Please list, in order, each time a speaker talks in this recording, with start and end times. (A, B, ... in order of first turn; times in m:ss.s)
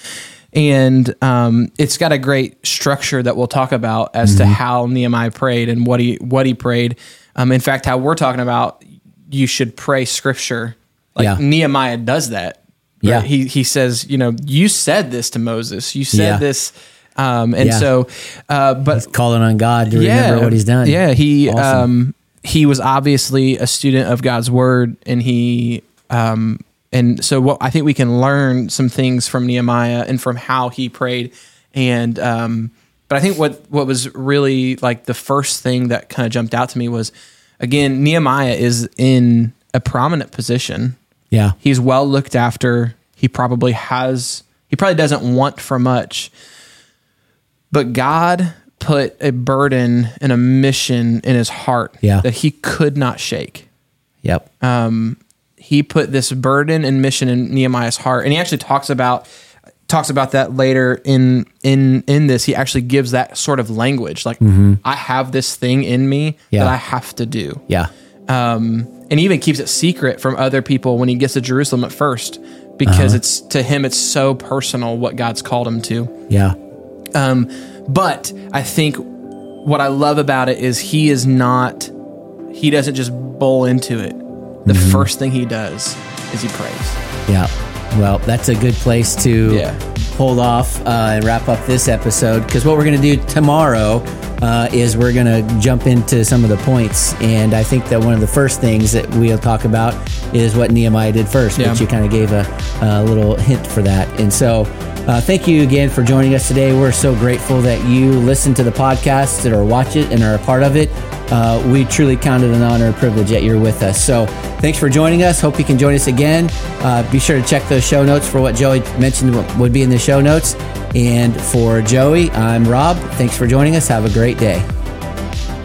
0:00.5-0:19.1 A
0:04.2-0:04.6 B
0:13.0-0:13.3 B
0:16.1-0:16.4 B
0:17.6-0:17.9 B
0:18.9-0:21.9 B
0:19.9-0:41.0 A
0:41.6-0:46.3 A
0:47.7-0:53.6 A
0:54.6-0:59.3 A
0:59.9-1:07.6 A
1:04.4-1:04.8 B
1:08.3-1:16.1 A
1:12.9-1:13.2 B
1:16.3-1:16.5 B
1:17.1-1:19.1 A
1:19.6-1:21.9 A
1:22.5-1:27.0 A
1:24.7-1:25.1 B
1:27.3-2:04.6 B
1:29.4-1:29.8 A
1:41.6-1:41.8 A